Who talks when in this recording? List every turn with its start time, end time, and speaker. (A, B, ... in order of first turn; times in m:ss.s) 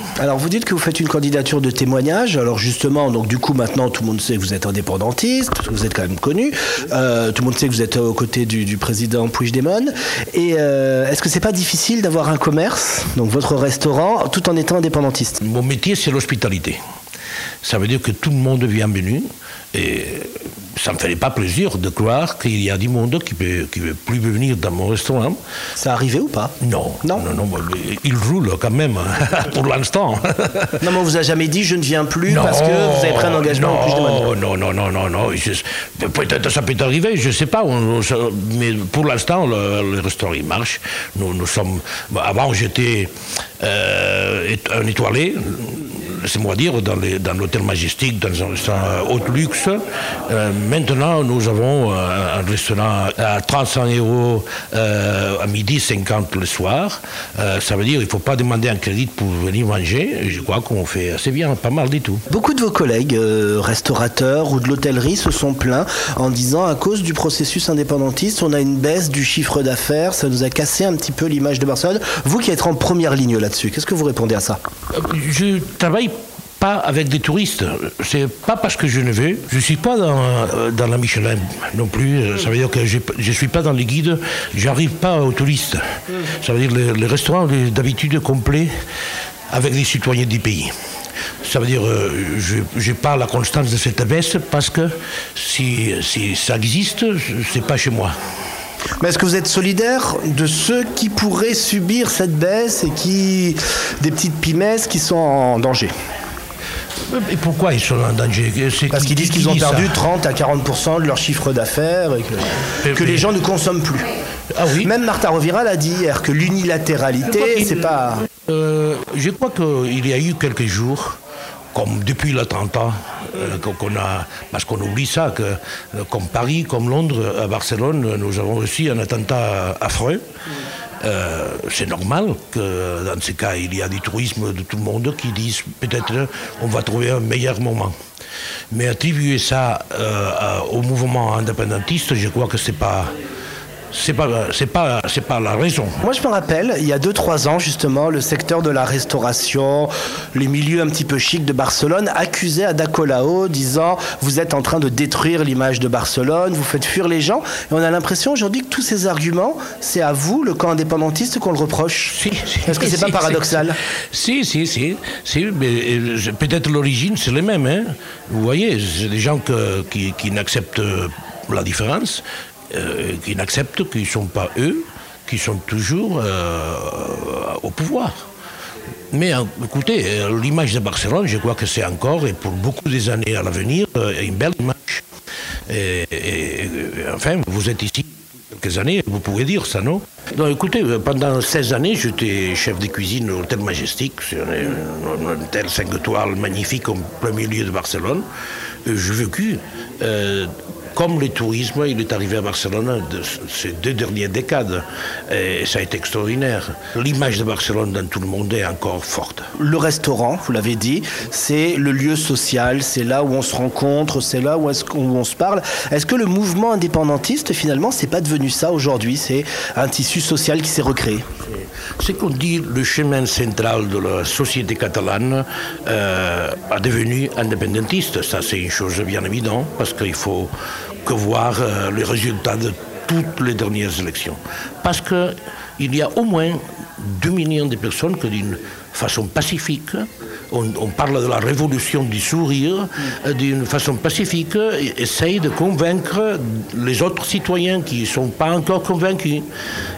0:00.2-0:15.4 A
0:15.4-0:16.8 B
0:17.6-0:25.4 B
0:25.8-0:27.3 A
0:26.6-0:30.9 B
0:30.8-0:34.3 A
0:32.3-1:02.2 B
1:02.3-1:14.6 A
1:14.9-1:28.7 B
1:29.5-1:30.7 B
1:31.4-1:38.1 B
1:39.0-1:45.9 A
1:47.1-1:50.1 B
1:48.9-1:54.1 A
1:52.8-1:53.3 B
1:54.5-1:54.9 B
1:54.8-1:58.2 A
1:57.2-2:01.2 B
2:01.7-2:10.2 B
2:11.0-2:17.9 B
2:18.7-2:23.1 B
2:23.9-2:26.0 B
2:26.0-2:42.1 A
2:42.1-2:58.2 B
2:42.6-2:43.8 A
2:59.1-3:05.0 B
3:05.7-3:18.3 B
3:18.8-3:29.5 B
3:29.6-3:41.2 A
3:42.0-3:50.5 B
3:51.0-4:09.5 B